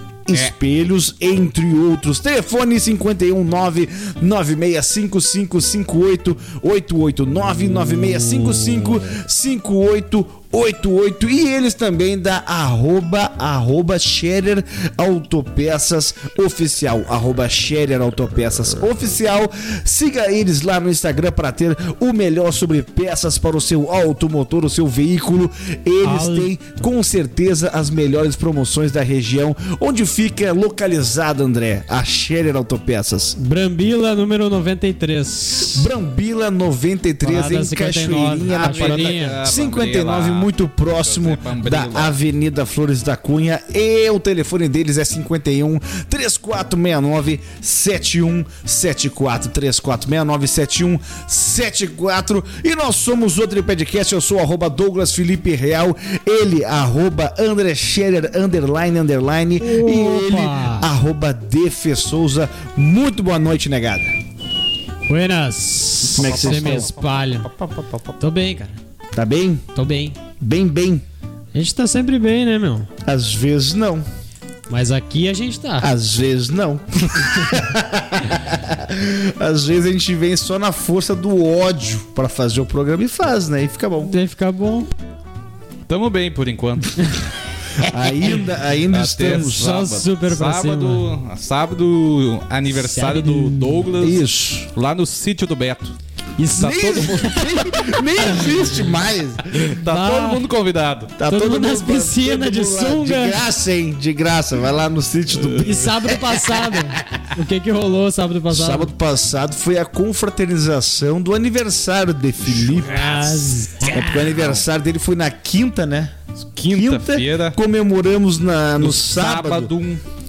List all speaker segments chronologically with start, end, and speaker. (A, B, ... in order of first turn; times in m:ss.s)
0:00.3-0:33.4 A
0:26.0-0:26.5 B
0:33.4-0:35.8 B
0:35.6-1:04.1 A
0:37.2-0:39.4 B
0:38.5-0:42.1 C
0:59.6-1:00.9 B
1:05.1-1:07.5 B
1:06.1-1:06.9 A
1:06.2-1:08.1 C
1:08.2-1:08.8 B
1:09.1-1:09.6 A
1:09.7-1:10.2 B
1:10.4-1:11.0 A
1:11.5-1:12.9 B
1:13.0-1:14.1 A
1:14.7-1:15.9 B
1:15.8-1:24.1 A
1:24.0-1:24.9 B
1:25.9-1:27.2 C
1:27.8-1:28.4 B
1:27.8-1:29.9 A
1:28.9-1:36.0 C
1:29.2-1:31.0 B
1:32.7-1:33.9 B
1:34.0-1:34.7 A
1:36.4-1:38.6 B
1:36.5-1:39.5 A
1:36.6-1:37.4 C
1:39.5-1:41.2 C
1:39.7-1:40.4 B
1:41.2-1:47.2 A
1:41.2-1:43.4 B
1:45.4-1:45.8 C
1:45.6-1:48.9 B
1:48.5-1:53.1 A
1:52.5-1:53.6 C
1:52.8-1:54.2 B
1:53.9-1:56.2 A
1:54.1-1:54.6 C
1:56.4-1:57.6 C
1:56.7-1:59.7 A
1:58.8-2:00.0 C